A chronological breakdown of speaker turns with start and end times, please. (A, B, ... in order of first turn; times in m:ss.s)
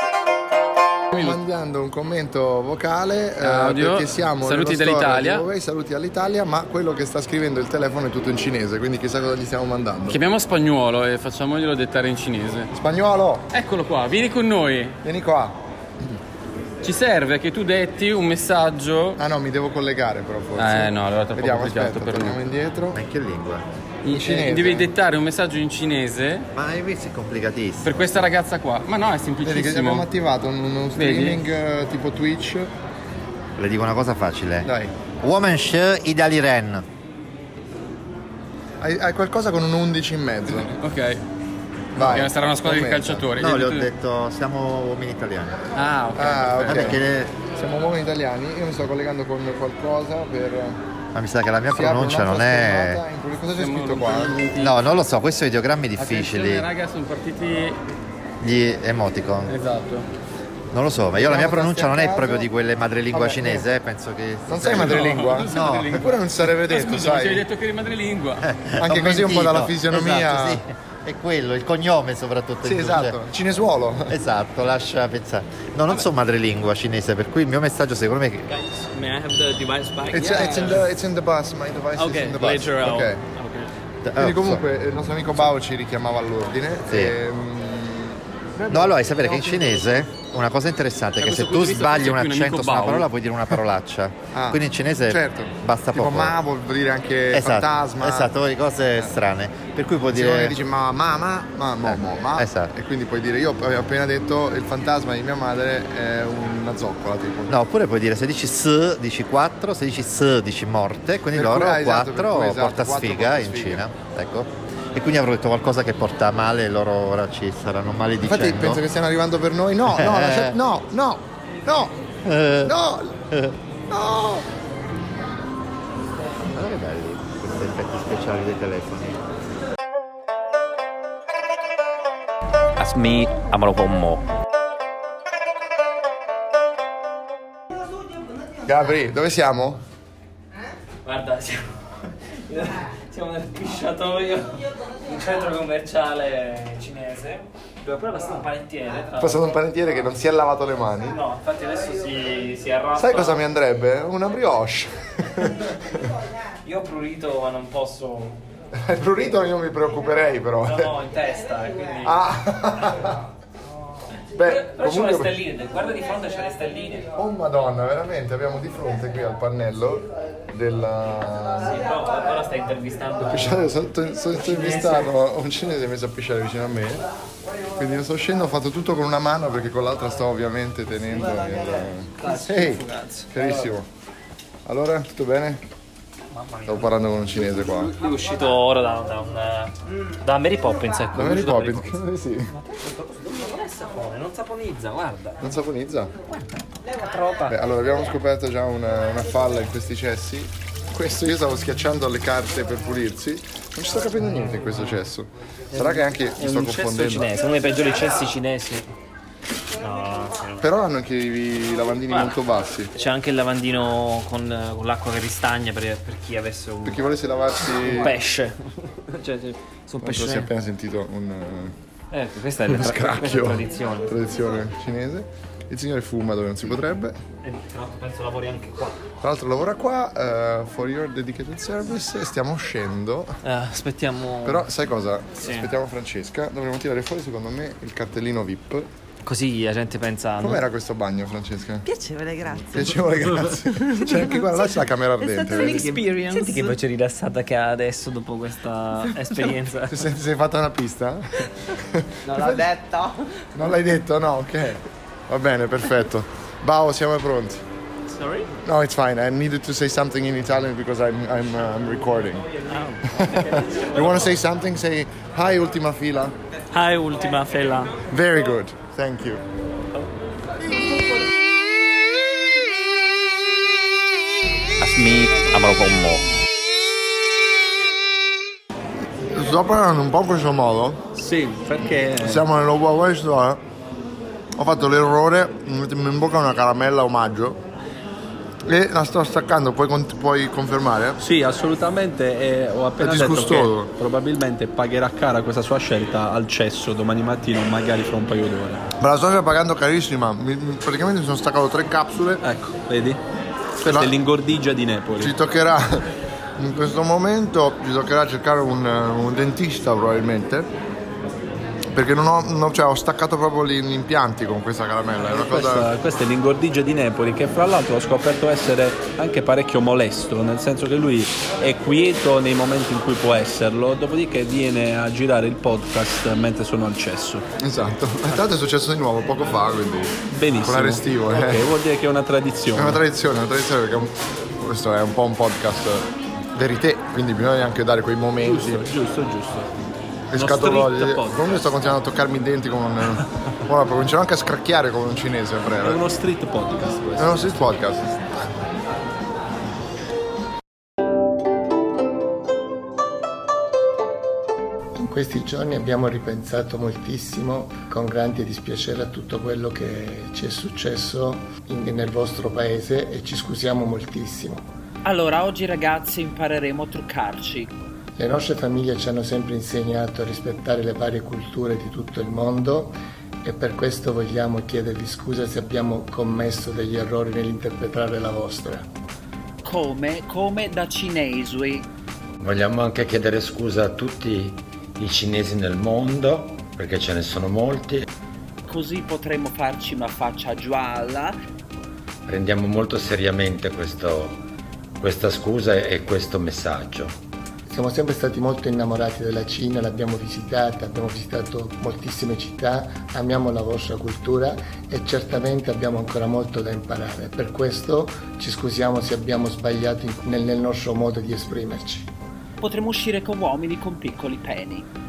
0:01.1-0:01.4 A
0:01.1-0:10.2 B
0:03.4-0:05.5 A
0:10.1-0:12.7 A
0:12.7-0:13.5 B
0:13.5-0:15.0 A
0:15.0-0:15.6 B
0:16.8-0:19.2 A
0:19.2-0:23.0 B
0:20.6-0:22.4 A
0:22.9-0:23.6 C
0:24.0-0:26.5 A
0:24.1-0:24.9 B
0:26.6-0:28.1 C
0:27.8-0:30.1 A
0:29.4-0:32.7 B
0:31.0-0:31.4 A
0:33.6-0:34.7 C
0:34.6-0:34.9 B
0:35.2-0:36.8 C
0:38.8-0:40.7 B
0:40.5-0:41.2 A
0:42.0-0:43.3 B
0:42.0-0:43.9 A
0:43.4-0:45.6 C
0:45.7-0:47.0 A
0:46.2-0:50.8 B
0:46.6-0:47.3 C
0:51.1-0:53.0 C
0:51.7-0:54.4 B
0:53.6-0:54.8 A
0:54.6-0:56.7 C
0:56.0-0:57.8 A
0:58.4-0:59.6 C
0:59.5-1:00.1 A
1:00.7-1:06.0 C
1:01.1-1:02.5 B
1:03.1-1:03.7 B
1:04.5-1:07.4 B
1:04.7-1:08.5 A
1:08.4-1:13.2 C
1:08.8-1:10.6 B
1:12.6-1:14.2 B
1:14.1-1:18.5 C
1:18.5-1:20.9 D
1:20.1-1:23.2 B
1:22.0-1:23.7 D
1:24.0-1:24.6 C
1:24.2-1:29.9 B
1:26.9-1:27.2 C
1:28.7-1:36.4 C
1:31.2-1:33.1 A
1:34.3-1:38.4 B
1:37.3-1:40.6 C
1:40.1-1:47.6 B
1:41.8-1:42.7 C
1:47.5-1:58.8 C
1:51.3-1:53.9 B
1:58.2-2:02.0 B
1:59.9-2:00.6 C
2:02.2-2:02.7 C
2:02.6-2:03.3 B
2:03.9-2:04.5 B
2:06.5-2:09.1 C
2:12.8-2:14.2 E
2:18.6-2:19.8 B
2:21.0-2:21.7 D
2:22.5-2:29.6 D
2:29.2-2:31.2 B
2:31.1-2:33.4 D
2:33.0-2:36.0 B
2:36.6-2:38.4 D
2:38.8-2:41.0 B
2:40.7-2:42.2 D
2:42.0-2:43.2 B
2:44.4-2:45.4 B
2:44.4-2:47.1 D
2:47.2-2:51.8 B
2:51.6-2:53.7 D
2:53.3-2:57.1 B
2:54.4-2:55.1 D
2:57.8-3:03.9 B
3:02.2-3:03.7 D
3:04.7-3:05.6 B
3:06.3-3:06.9 D
3:06.7-3:08.0 B
3:07.9-3:12.0 D
3:11.1-3:12.5 B
3:12.5-3:15.4 D
3:15.4-3:16.1 B
3:16.9-3:17.6 D
3:17.5-3:27.3 B
3:25.7-3:28.9 D
3:29.8-3:30.7 D
3:30.6-3:32.9 B
3:32.1-3:32.4 D
3:32.9-3:37.0 D
3:36.8-3:38.2 B
3:37.7-3:40.5 D
3:40.0-3:41.7 B
3:42.1-3:44.2 D
3:42.6-3:47.2 B
3:47.4-3:49.0 D
3:49.2-3:53.4 B
3:53.4-3:54.7 D
3:54.4-3:58.9 B
3:55.4-3:55.7 D
3:59.2-4:00.6 D
4:00.4-4:01.8 B
4:01.8-4:03.1 F
4:02.7-4:06.0 B
4:03.8-4:06.8 F
4:05.6-4:10.0 D
4:09.9-4:12.7 B
4:12.2-4:13.4 F
4:13.6-4:17.6 B
4:18.1-4:18.5 D
4:18.6-4:22.6 B
4:22.5-4:24.4 D
4:23.1-4:26.4 B
4:26.7-4:28.0 D
4:28.1-4:29.4 B
4:34.8-4:36.2 E
4:39.3-4:41.1 B
4:41.2-4:42.4 G
4:42.1-4:43.6 B
4:44.6-4:47.6 B
4:48.6-4:51.2 B
4:51.2-4:58.9 G
4:53.0-4:53.9 B
4:59.0-5:02.4 B
5:02.4-5:03.2 G
5:03.8-5:04.2 B
5:03.8-5:05.3 G
5:05.2-5:10.7 B
5:11.9-5:15.9 B
5:15.3-5:27.5 G
5:27.6-5:31.7 B
5:30.3-5:33.0 G
5:32.8-5:38.9 B
5:38.4-5:39.7 G
5:40.3-5:46.0 B
5:40.4-5:41.8 G
5:45.8-5:47.6 G
5:47.2-5:48.5 B
5:55.0-6:04.7 H
6:05.0-6:07.7 I
6:08.2-6:18.9 H
6:19.6-6:21.9 I
6:22.4-6:28.1 J
6:28.7-6:31.4 I
6:32.3-6:34.4 J
6:35.0-6:37.2 J
6:37.7-6:52.1 H
6:52.6-6:54.9 I